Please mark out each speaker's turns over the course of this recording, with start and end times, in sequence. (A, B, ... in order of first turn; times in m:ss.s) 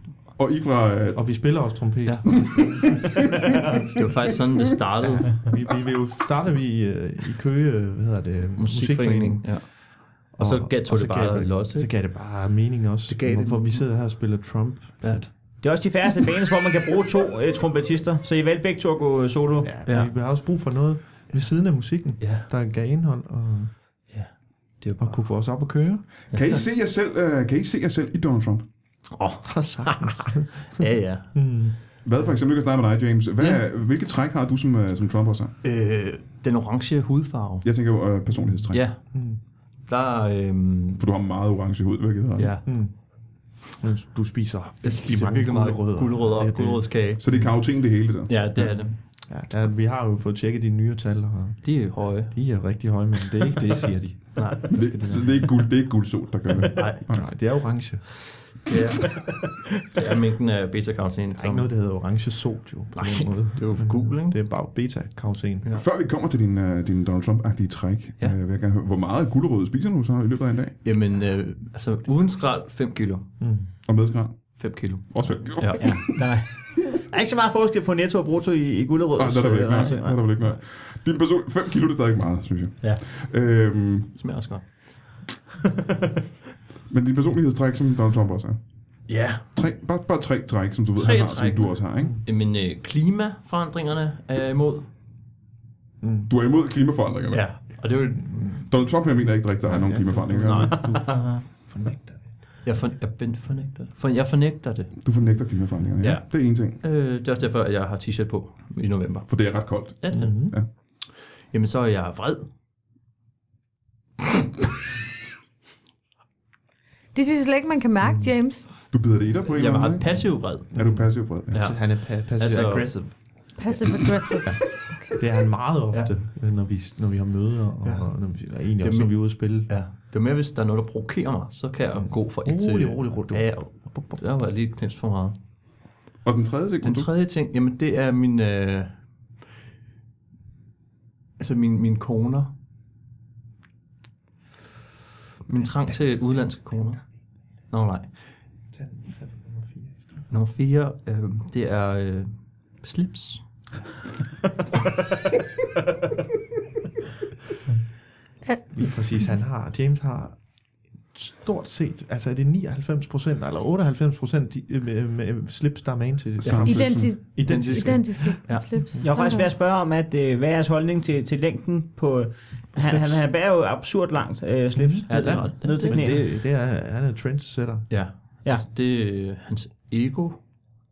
0:00.3-0:01.6 A
0:01.1-0:03.4 B
0:02.0-0:02.9 C
0:03.6-0:05.5 C
0:04.5-0:04.7 A
0:05.0-0:09.8 B
0:08.6-0:11.9 C
0:10.3-0:15.2 B
0:13.1-0:13.8 C
0:15.0-0:15.3 C
0:15.6-0:19.7 D
0:19.6-0:23.7 B
0:19.8-0:20.1 C
0:22.2-0:22.5 C
0:24.1-0:25.2 C
0:25.0-0:26.0 B
0:26.3-0:26.6 C
0:26.3-0:28.6 A
0:29.1-0:31.7 C
0:29.4-0:32.2 B
0:32.0-0:35.5 A
0:35.6-0:37.7 C
0:37.6-0:38.8 A
0:38.5-0:39.4 B
0:38.7-0:39.3 C
0:39.8-0:41.0 C
0:41.0-0:42.6 A
0:42.4-0:42.7 C
0:42.6-0:47.6 B
0:44.8-0:47.2 C
0:47.2-0:48.8 A
0:48.3-0:49.0 C
0:49.2-0:55.5 B
0:51.6-0:52.5 C
0:54.3-0:55.3 C
0:54.7-0:57.3 A
0:56.7-0:57.6 C
0:57.1-0:58.1 B
0:58.5-1:01.8 C
1:01.3-1:05.6 B
1:02.9-1:04.4 C
1:05.7-1:10.8 A
1:10.8-1:13.4 C
1:13.4-1:13.7 B
1:13.8-1:16.5 A
1:14.5-1:16.3 C
1:15.8-1:20.3 D
1:19.2-1:24.1 A
1:24.1-1:24.9 C
1:26.9-1:28.8 A
1:29.1-1:29.6 C
1:29.5-1:32.1 A
1:30.9-1:34.9 C
1:36.0-1:36.3 B
1:36.3-1:37.9 A
1:37.3-1:38.7 C
1:38.2-1:38.6 B
1:38.6-1:41.0 A
1:39.6-1:42.4 B
1:40.3-1:41.3 C
1:42.6-1:45.0 C
1:45.0-1:46.8 A
1:46.0-1:52.5 C
1:49.3-1:50.7 A
1:50.1-1:50.6 B
1:57.1-1:58.7 E
1:58.0-1:58.3 B
1:58.9-2:01.6 A
1:59.5-2:00.8 C
2:00.7-2:03.0 B
2:01.5-2:03.3 C
2:03.6-2:05.2 E
2:04.4-2:09.7 B
2:08.8-2:15.4 C
2:11.9-2:14.2 B
2:16.2-2:17.1 A
2:16.8-2:19.0 C
2:21.4-2:22.5 C
2:25.5-2:27.0 C
2:25.9-2:26.6 B
2:27.6-2:28.2 C
2:28.7-2:30.3 B
2:30.3-2:33.4 C
2:38.7-2:49.1 B
2:46.4-2:47.2 A
2:46.4-2:46.7 C
2:46.6-2:49.5 E
2:47.4-2:49.0 C
2:49.0-2:56.2 D
2:52.8-2:53.1 B
2:54.7-2:57.9 B
2:55.1-2:56.1 C
2:57.9-3:00.4 C